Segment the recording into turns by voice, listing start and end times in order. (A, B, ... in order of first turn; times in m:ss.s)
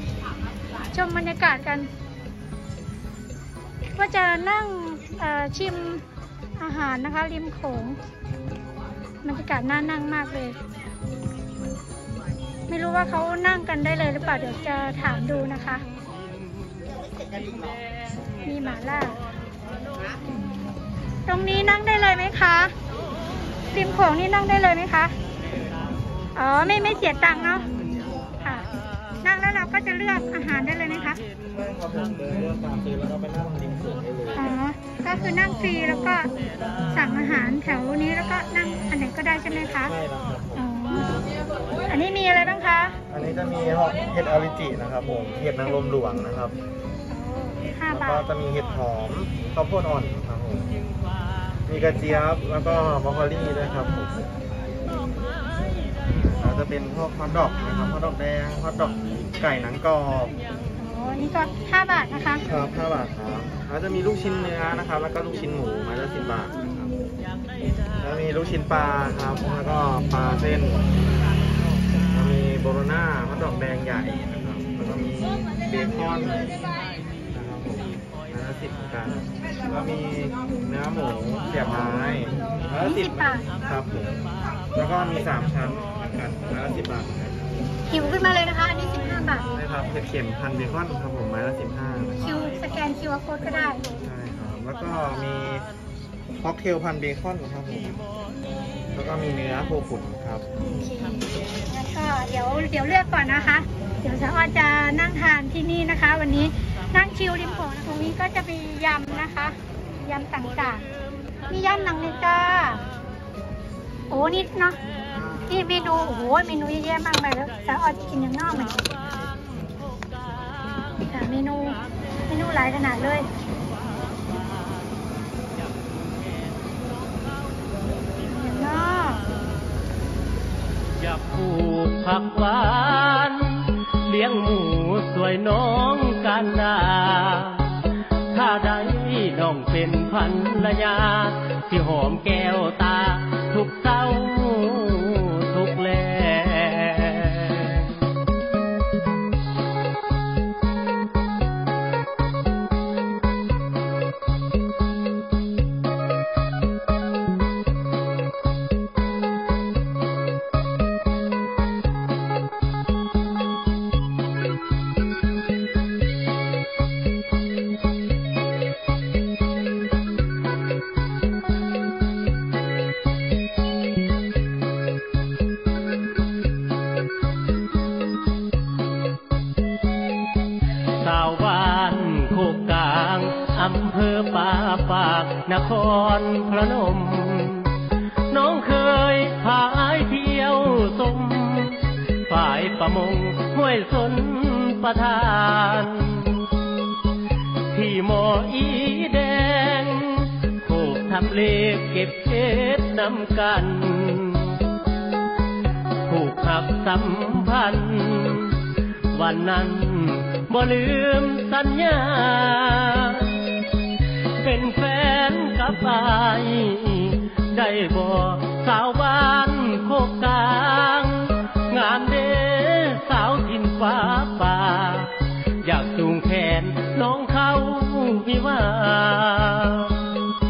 0:00.9-0:01.9 A
0:04.0-0:06.0 A
0:06.6-0:08.0 A
0:09.2-0:10.6 A
0:12.7-0:15.8 A
0:18.4-0:19.2 A
0:21.3-0:22.7 A
0:23.7-0:25.2 A
0:26.4-0:27.7 A
0:28.4-0:28.7 A
0:29.2-0:31.2 A
0:31.5-0:34.5 B
0:34.4-0:36.3 A
0:36.9-0:40.0 A
0:39.8-0:40.6 B
0:40.6-0:41.3 A
0:41.9-0:43.0 A
0:43.1-0:46.6 B
0:47.1-0:48.3 A
0:47.9-0:50.7 B
0:51.7-0:54.2 B
0:56.0-1:00.4 B
1:00.8-1:02.4 A
1:02.4-1:06.9 B
1:08.0-1:10.9 B
1:12.0-1:16.7 B
1:17.3-1:24.1 B
1:22.8-1:23.5 A
1:24.7-1:27.6 B
1:27.9-1:29.5 A
1:29.5-1:32.3 B
1:32.2-1:33.9 A
1:34.0-1:35.7 B
1:36.4-1:38.0 B
1:38.9-1:40.4 B
1:40.8-1:50.8 A
1:51.5-1:52.8 A
1:54.1-1:54.8 A
1:55.4-1:58.9 A
2:01.0-2:03.3 A
2:08.2-2:09.2 A
2:11.0-2:28.0 C
3:00.9-3:16.6 C
3:17.7-3:24.7 C
3:26.1-3:33.5 C
3:34.4-3:50.2 C